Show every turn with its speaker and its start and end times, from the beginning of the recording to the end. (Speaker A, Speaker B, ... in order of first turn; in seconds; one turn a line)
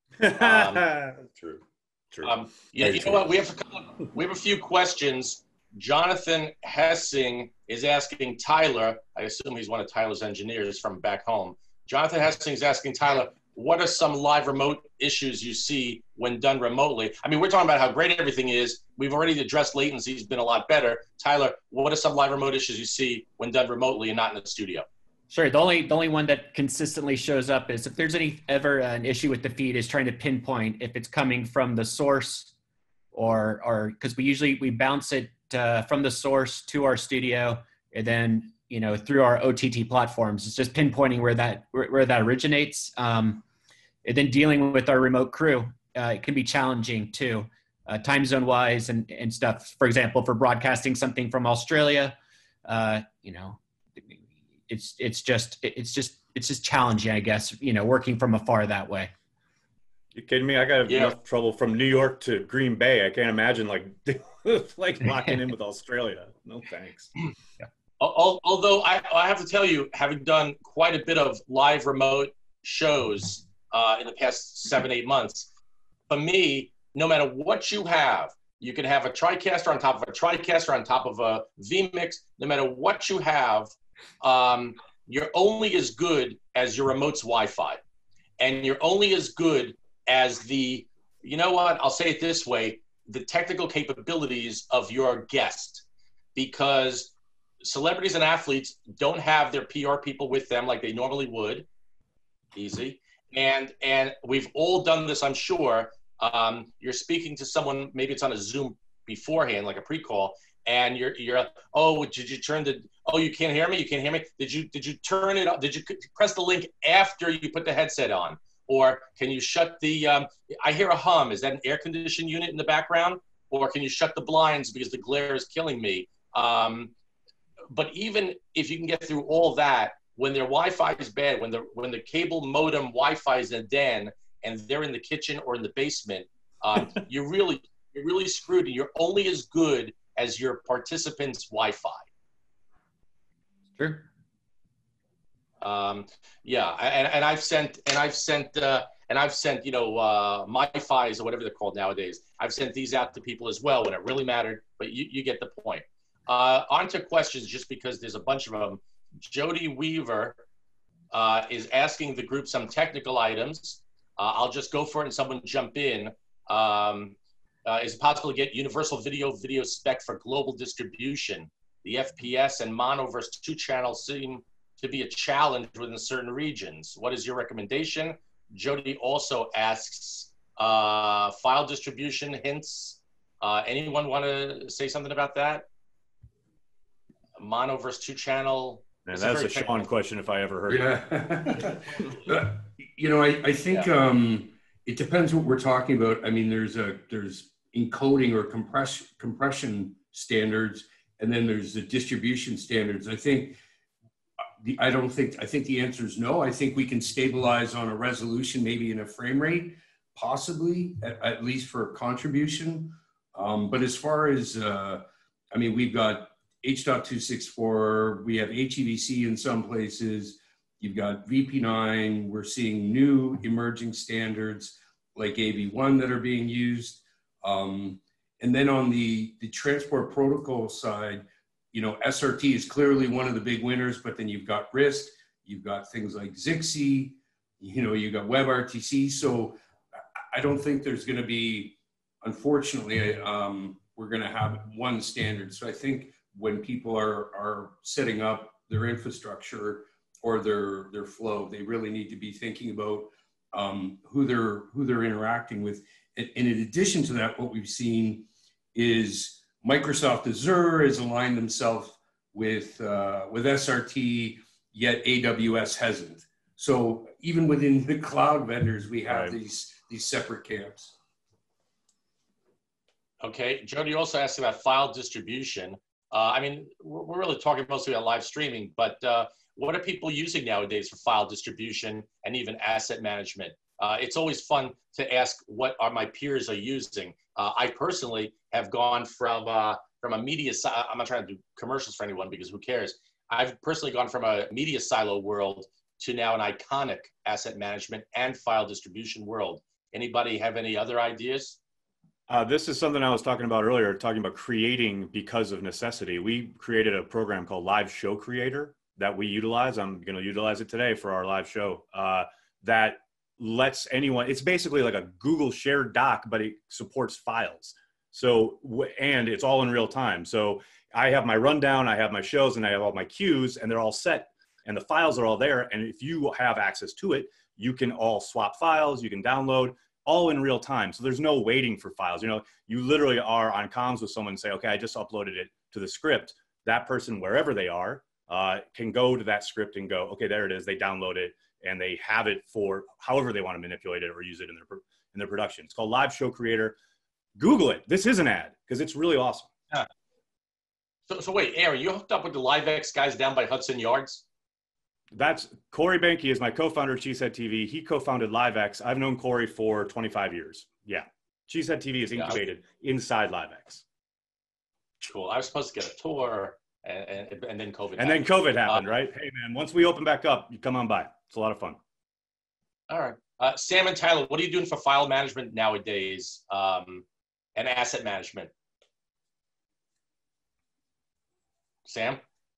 Speaker A: 0.2-3.2
Speaker B: 0.3-0.9
Speaker B: 2.2-24.9
Speaker C: 25.3-32.5
Speaker C: 33.1-43.4
Speaker C: 44.0-59.1
Speaker A: 60.1-67.1
Speaker B: 60.9-61.1
Speaker B: 68.0-75.5
Speaker B: 76.1-87.8
Speaker B: 88.4-95.8
Speaker B: 96.3-101.7
Speaker B: 102.5-126.9
Speaker B: 127.7-142.0
Speaker C: 143.8-144.1
Speaker B: 145.6-160.4
Speaker B: 161.1-185.7
Speaker B: 187.4-189.9
Speaker A: 189.1-191.3
Speaker D: 190.7-203.6
Speaker D: 204.6-239.6
Speaker D: 240.3-270.9
Speaker A: 269.1-269.4
Speaker B: 273.2-301.6
Speaker A: 302.3-346.8
Speaker A: 347.4-349.5
Speaker B: 351.1-354.2
Speaker A: 355.1-363.8
Speaker B: 365.0-368.9
Speaker A: 368.0-371.8
Speaker B: 372.9-377.0
Speaker B: 377.6-378.5
Speaker B: 381.9-382.2